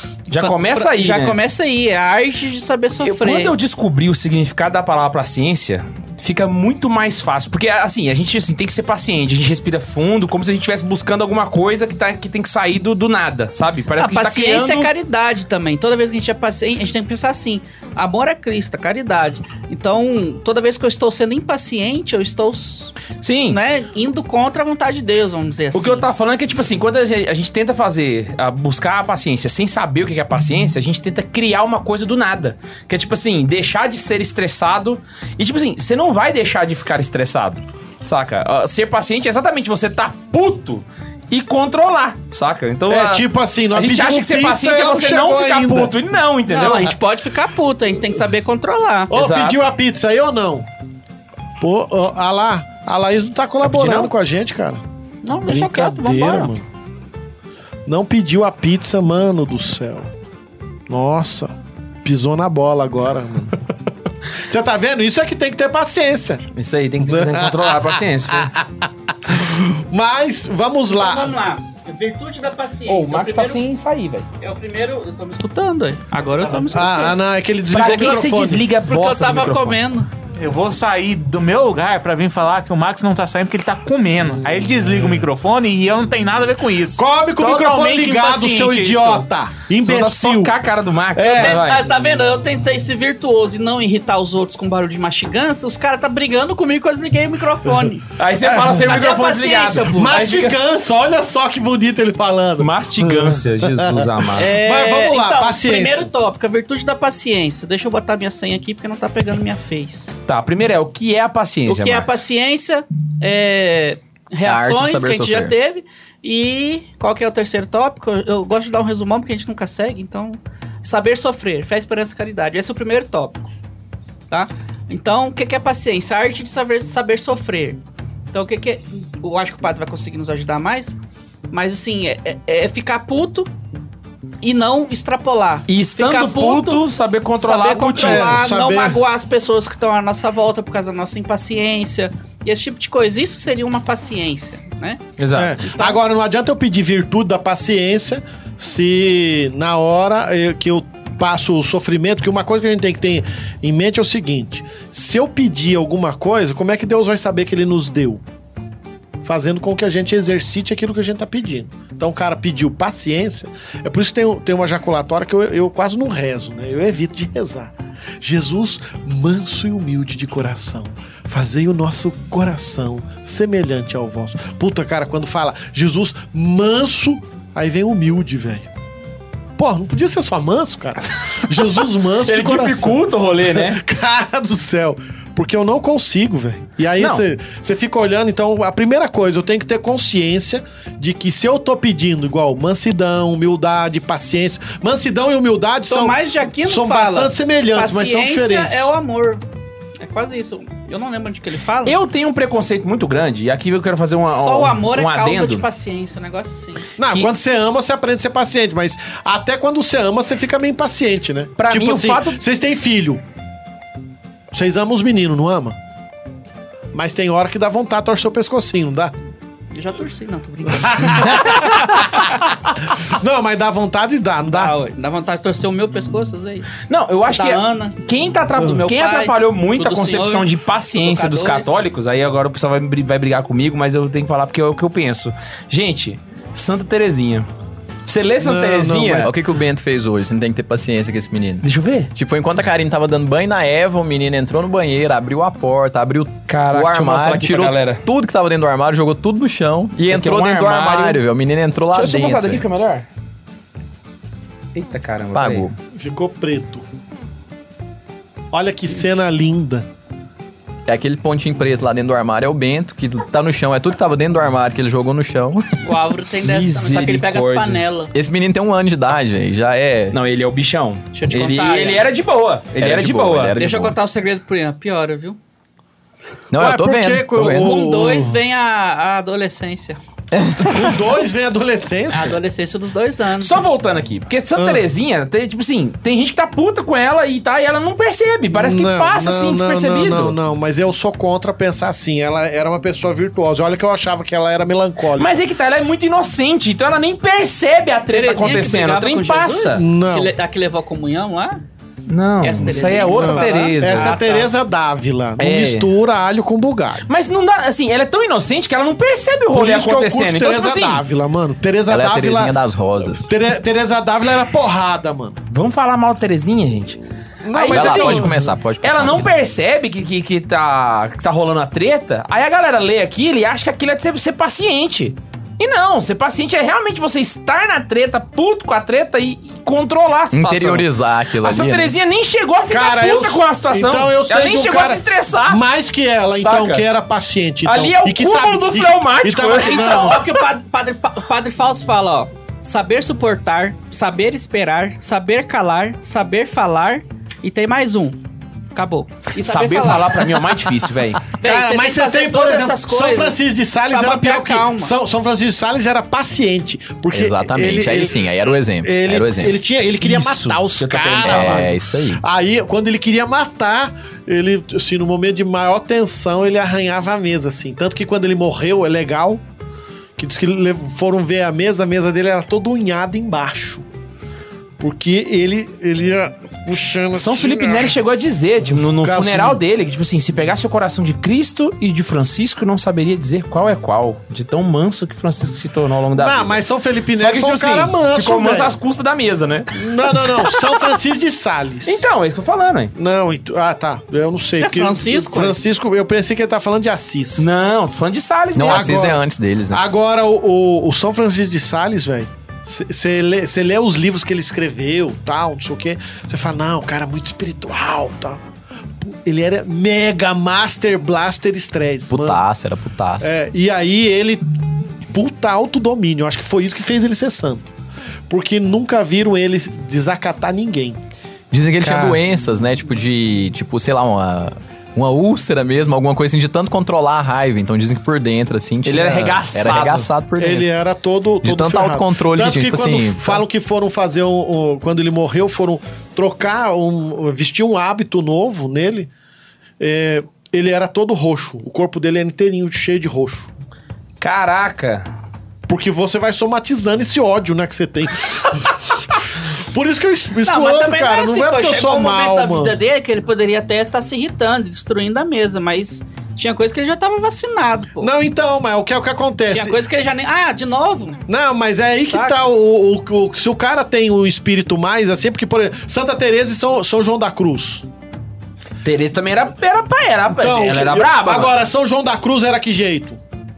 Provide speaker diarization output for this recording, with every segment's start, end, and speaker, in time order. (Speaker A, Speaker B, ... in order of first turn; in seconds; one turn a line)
Speaker A: 0.3-3.5
Speaker B: 0.3-1.4
Speaker B: 3.0-14.9
Speaker A: 14.0-26.1
Speaker B: 23.2-23.6
Speaker B: 25.7-47.0
Speaker C: 42.9-45.9
Speaker A: 46.5-49.1
Speaker C: 49.1-50.7
Speaker B: 49.1-49.6
Speaker C: 51.6-54.8
Speaker B: 53.7-54.1
Speaker A: 55.2-56.5
Speaker C: 55.5-56.6
Speaker C: 57.9-60.1
Speaker C: 60.9-63.6
Speaker C: 64.3-66.5
Speaker B: 66.5-68.5
Speaker C: 67.0-71.4
Speaker A: 70.9-73.6
Speaker B: 72.9-74.3
Speaker A: 74.4-77.2
Speaker D: 76.4-76.8
Speaker C: 76.7-78.7
Speaker B: 77.7-79.8
Speaker A: 77.8-78.1
Speaker A: 78.8-80.1
Speaker D: 80.4-89.2
Speaker C: 87.0-90.5
Speaker B: 89.8-91.8
Speaker C: 91.2-91.6
Speaker A: 91.2-98.0
Speaker B: 98.2-100.6
Speaker C: 98.4-98.9
Speaker A: 98.8-100.3
Speaker C: 99.9-106.1
Speaker B: 102.6-104.5
Speaker A: 104.4-110.2
Speaker B: 110.3-112.2
Speaker A: 111.7-123.5
Speaker E: 114.5-115.5
Speaker A: 124.3-127.8
Speaker A: 128.3-131.0
Speaker A: 131.5-133.5
Speaker A: 134.4-136.8
Speaker B: 135.7-138.4
Speaker A: 137.4-145.0
Speaker C: 138.0-139.0
Speaker B: 145.2-145.6
Speaker C: 145.3-158.2
Speaker A: 145.7-146.0
Speaker C: 159.2-178.7
Speaker C: 179.6-198.9
Speaker B: 182.1-183.8
Speaker A: 195.9-199.4
Speaker A: 200.0-202.0
Speaker B: 201.8-205.7
Speaker A: 204.3-206.9
Speaker C: 207.0-213.2
Speaker B: 211.6-212.4
Speaker C: 214.5-215.8
Speaker C: 216.9-219.1
Speaker A: 219.7-222.2
Speaker C: 220.7-222.3
Speaker C: 222.9-224.7
Speaker A: 224.5-226.8
Speaker B: 226.9-237.5
Speaker A: 227.3-231.7
Speaker B: 238.1-239.3
Speaker C: 238.4-239.3
Speaker E: 239.2-252.7
Speaker B: 241.6-242.1
Speaker B: 246.5-248.0
Speaker B: 250.1-251.2
Speaker B: 251.9-253.1
Speaker B: 254.7-255.7
Speaker E: 255.3-255.7
Speaker C: 255.9-256.9
Speaker C: 258.5-259.9
Speaker E: 260.9-265.8
Speaker A: 265.8-268.1
Speaker B: 266.4-267.8
Speaker E: 268.1-270.2
Speaker B: 270.1-273.6
Speaker A: 271.1-272.1
Speaker E: 272.8-274.0
Speaker A: 273.6-275.4
Speaker E: 276.5-277.8
Speaker C: 276.6-278.4
Speaker A: 277.5-280.0
Speaker E: 280.3-281.1
Speaker C: 280.6-282.4
Speaker A: 282.1-283.6
Speaker B: 283.4-290.4
Speaker C: 284.6-284.9
Speaker C: 288.5-295.3
Speaker B: 295.1-299.8
Speaker A: 298.1-301.6
Speaker C: 299.8-300.3
Speaker B: 302.1-304.2
Speaker A: 302.4-304.5
Speaker C: 302.9-307.1
Speaker B: 305.4-305.9
Speaker B: 307.1-311.1
Speaker C: 309.5-315.4
Speaker E: 311.9-313.3
Speaker B: 315.5-317.0
Speaker C: 317.4-318.5
Speaker B: 317.6-318.3
Speaker E: 317.7-319.3
Speaker B: 318.8-335.6
Speaker E: 330.3-331.9
Speaker C: 332.7-340.2
Speaker B: 336.3-336.9
Speaker B: 337.6-340.2
Speaker A: 339.6-348.2
Speaker A: 348.8-350.4
Speaker B: 349.4-351.2
Speaker A: 351.4-353.4
Speaker C: 351.4-358.2
Speaker A: 353.9-354.9
Speaker E: 357.1-359.6
Speaker C: 358.8-369.4
Speaker B: 360.0-361.7
Speaker E: 361.2-362.2
Speaker C: 370.2-373.9
Speaker C: 374.8-378.0
Speaker B: 377.1-386.6
Speaker C: 378.9-379.6
Speaker C: 386.2-388.8
Speaker B: 387.1-389.7
Speaker C: 389.7-392.1
Speaker B: 390.3-390.7
Speaker B: 391.9-392.9
Speaker C: 392.9-397.5
Speaker A: 394.6-395.6
Speaker B: 397.4-399.1
Speaker E: 398.6-399.8
Speaker C: 398.6-408.4
Speaker C: 409.0-412.4
Speaker E: 412.1-413.3
Speaker C: 413.2-414.4
Speaker C: 415.1-417.7
Speaker C: 418.3-421.0
Speaker E: 421.5-430.7
Speaker B: 421.8-422.2
Speaker B: 428.9-430.1
Speaker C: 430.4-439.1
Speaker E: 431.4-433.4
Speaker C: 439.8-443.5
Speaker B: 444.2-445.1
Speaker C: 445.7-452.8
Speaker A: 450.4-458.1
Speaker C: 458.0-459.8
Speaker A: 459.5-461.2
Speaker C: 461.3-467.9
Speaker A: 462.1-462.4
Speaker B: 468.8-471.6
Speaker C: 470.3-473.2